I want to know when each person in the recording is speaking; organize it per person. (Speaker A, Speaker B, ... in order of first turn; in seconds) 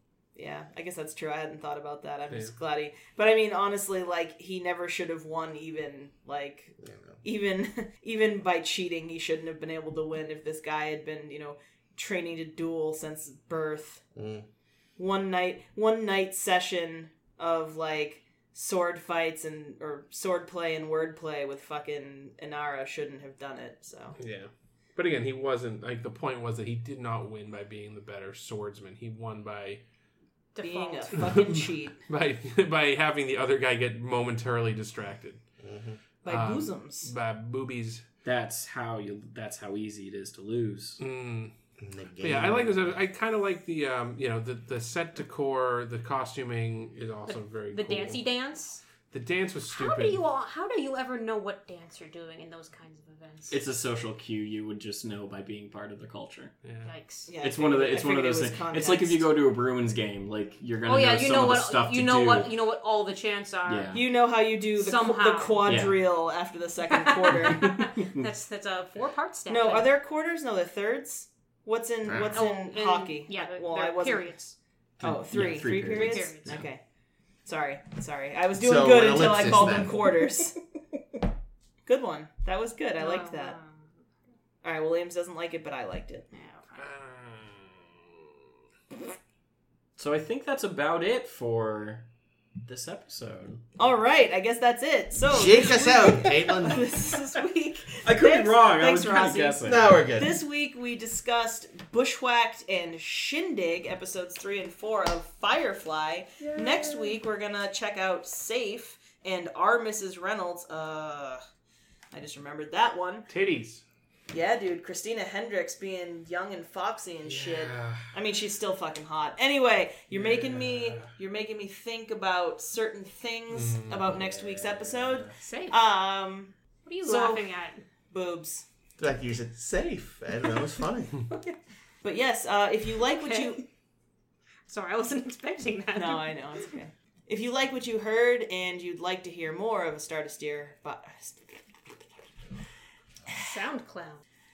Speaker A: 0.3-14.0, 15.0-24.2, 30.6-32.0, 36.2-37.1, 57.3-59.3, 63.9-67.9, 69.5-74.3, 75.0-76.8, 77.5-80.6, 81.9-83.6, 84.6-86.3, 93.8-111.4, 112.1-113.3, 114.3-127.5, 128.1-128.7, 132.0-133.6, 136.0-141.4
Speaker B: 6.8-7.2, 14.2-14.5, 35.6-36.0, 41.8-42.9, 72.0-72.4, 78.6-80.0, 95.3-96.9, 99.6-100.4, 129.0-131.2
Speaker C: 24.2-29.8, 31.2-35.4, 36.3-38.0, 41.0-41.5, 42.2-48.2, 49.1-50.2, 56.6-56.9, 86.8-87.8, 113.3-113.8, 117.3-118.1, 120.1-121.1, 123.5-124.0
Speaker D: 30.5-31.4, 47.3-48.8, 49.7-53.6, 56.9-57.3, 60.9-64.0, 64.8-65.7, 66.9-69.9, 72.3-74.6, 75.8-76.6, 83.0-83.9, 86.3-86.9, 125.4-125.8, 126.9-127.8, 131.3-131.6, 133.1-133.6, 134.7-136.4, 143.3-144.2
Speaker E: 38.2-41.0, 53.5-56.5, 57.4-62.5, 63.7-64.0, 65.7-66.0, 67.4-68.3, 75.0-76.7, 79.5-80.2, 90.0-92.1, 92.7-93.7, 98.0-100.0, 124.0-125.4